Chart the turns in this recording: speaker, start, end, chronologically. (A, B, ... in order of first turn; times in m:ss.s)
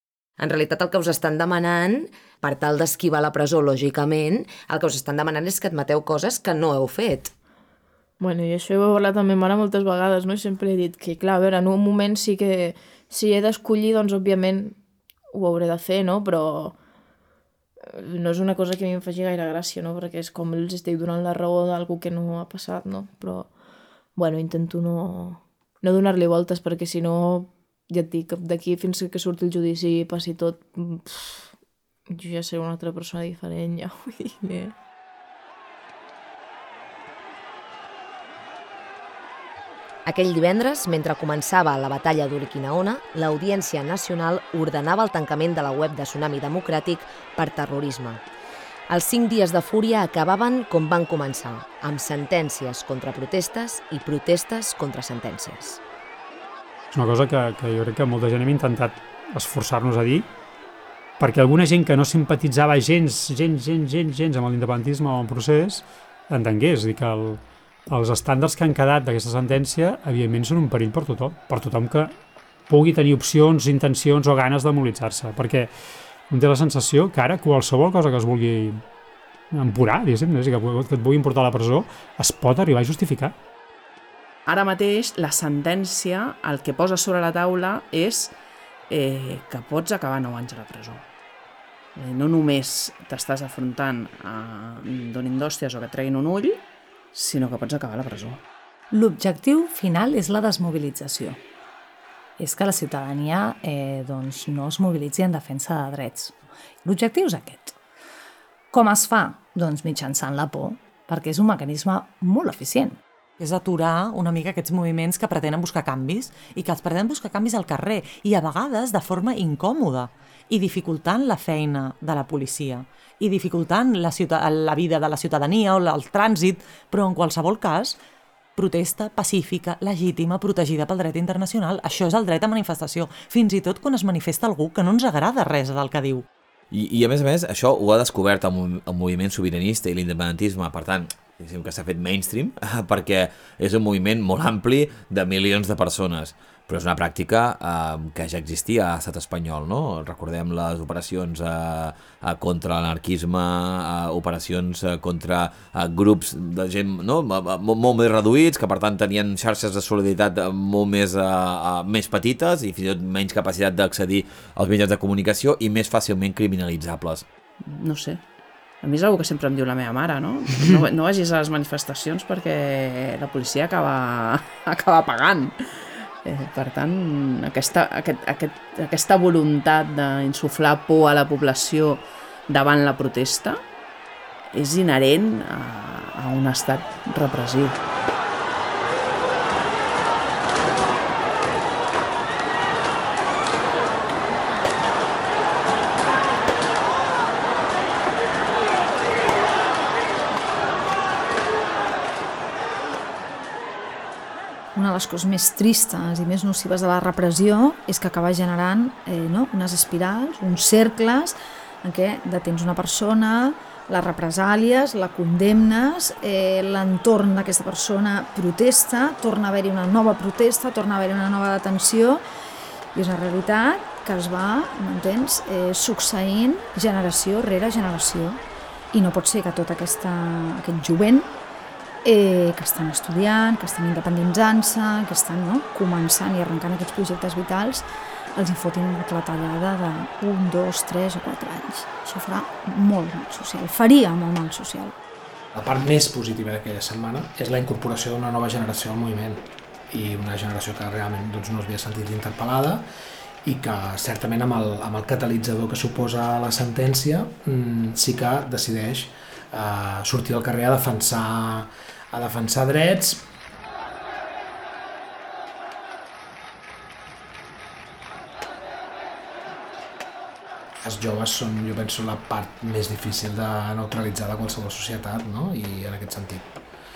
0:00.4-0:07.3 A
0:08.2-0:14.8 B
0:15.3-0:16.8 B
0:17.8-0:23.5 B
0:24.2-0:31.5 B
0:32.1-0:34.7 B
0:40.0-0:48.2 A
0:48.9-0:55.8 A
0:56.9-1:00.3 C
1:01.2-1:12.1 C
1:12.7-1:15.7 C
1:16.3-1:18.8 C
1:19.5-1:23.3 C
1:24.5-1:28.3 D
1:28.9-1:31.0 D
1:32.0-1:36.6 D
1:37.1-1:38.4 D
1:38.9-1:41.4 E
1:42.4-1:47.8 E
1:48.7-1:53.0 E
1:53.4-2:08.0 F
2:08.6-2:16.2 F
2:16.7-2:47.2 G
2:47.6-2:48.2 D
2:48.8-2:55.6 D
2:56.2-3:03.6 D
3:04.5-3:07.8 D
3:24.7-3:42.2 H
3:42.9-3:48.4 H
3:48.9-3:51.3 H
3:52.0-4:04.9 H
4:05.5-4:12.8 I
4:13.4-4:23.3 I
4:30.8-4:36.5 I